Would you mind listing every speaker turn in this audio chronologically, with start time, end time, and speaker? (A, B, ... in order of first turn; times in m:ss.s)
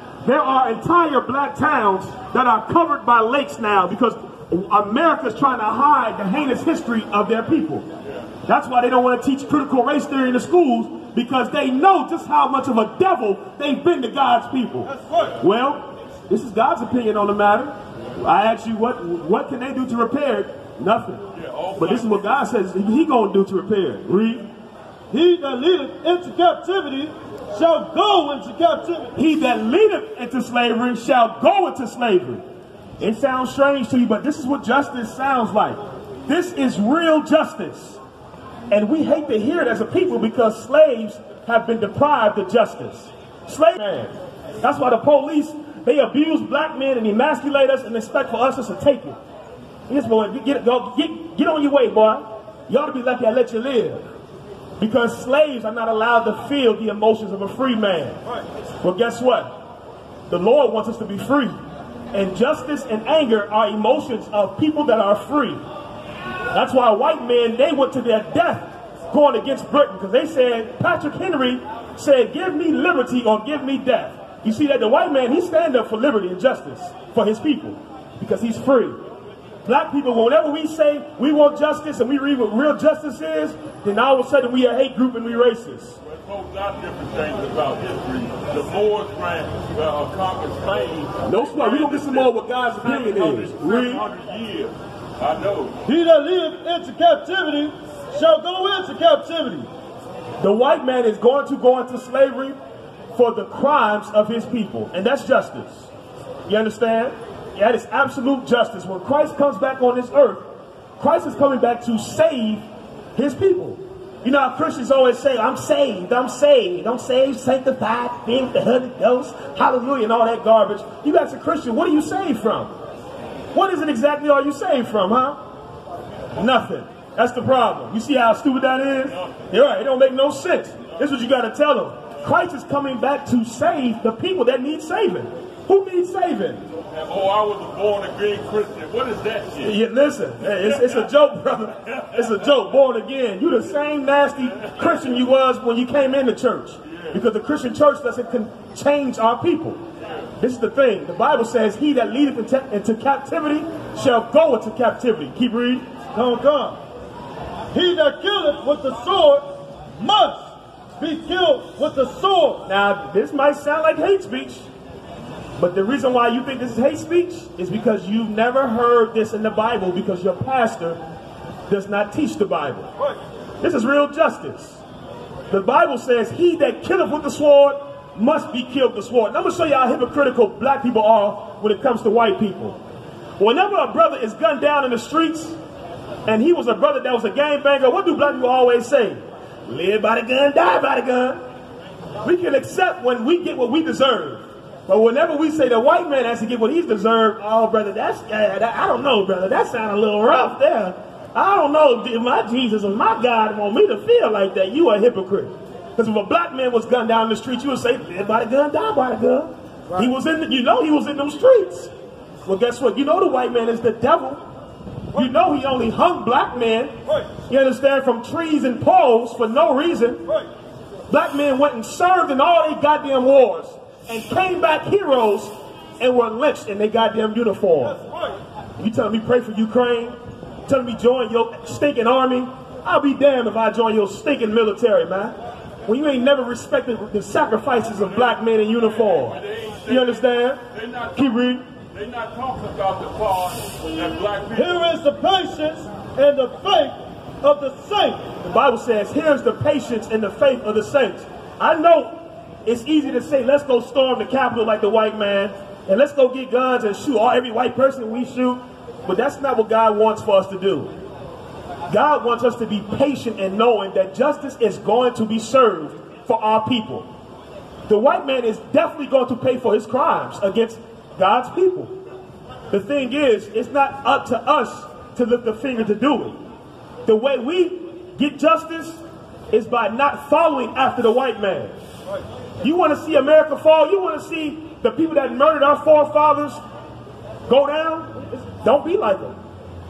0:00.2-0:07.8 A
0:08.4-0:21.2 A
0:14.8-0:15.4 B
0:21.3-0:22.4 C
0:21.8-0:24.5 A
0:25.1-0:29.1 B
0:29.2-0:32.4 A
0:33.0-0:38.0 A
0:38.7-0:49.2 A
0:49.9-0:54.1 A
0:54.8-0:58.2 A
0:58.8-0:59.6 A
1:00.3-1:01.6 A
1:02.1-1:05.6 A
1:06.5-1:19.0 A
1:19.6-1:26.0 A
1:26.0-1:35.8 C
1:31.2-1:34.0 A
1:35.9-1:39.7 B
1:40.4-1:42.6 A
1:43.1-1:45.9 A
1:46.5-1:50.5 A
1:51.0-1:52.6 A
1:53.2-2:02.8 A
2:03.5-2:05.4 A
2:06.4-2:16.7 A
2:09.1-2:09.5 C
2:16.8-2:19.8 C
2:19.6-2:29.8 A
2:20.5-2:21.1 C
2:24.5-2:25.2 C
2:26.8-2:27.2 C
2:30.0-2:30.3 C
2:30.4-2:35.8 A
2:36.1-2:36.8 B
2:37.7-2:42.6 B
2:42.6-2:44.6 A
2:45.6-2:51.0 A
2:51.7-2:52.9 A
2:53.6-2:54.8 A
2:55.5-3:02.8 A
3:03.4-3:05.6 A
3:06.2-3:11.4 A
3:12.2-3:31.9 A
3:32.4-3:34.4 A
3:35.1-3:40.2 A
3:37.0-3:37.3 B
3:41.1-3:48.0 A
3:47.8-3:48.4 B
3:48.8-4:00.6 A
3:58.0-4:04.8 C
4:01.2-4:01.6 A
4:04.5-4:08.4 B
4:08.4-4:20.9 A
4:21.9-4:27.1 A
4:27.9-4:31.9 A
4:32.7-4:36.4 A
4:37.0-4:41.8 A
4:42.6-4:46.6 A
4:47.5-4:49.4 A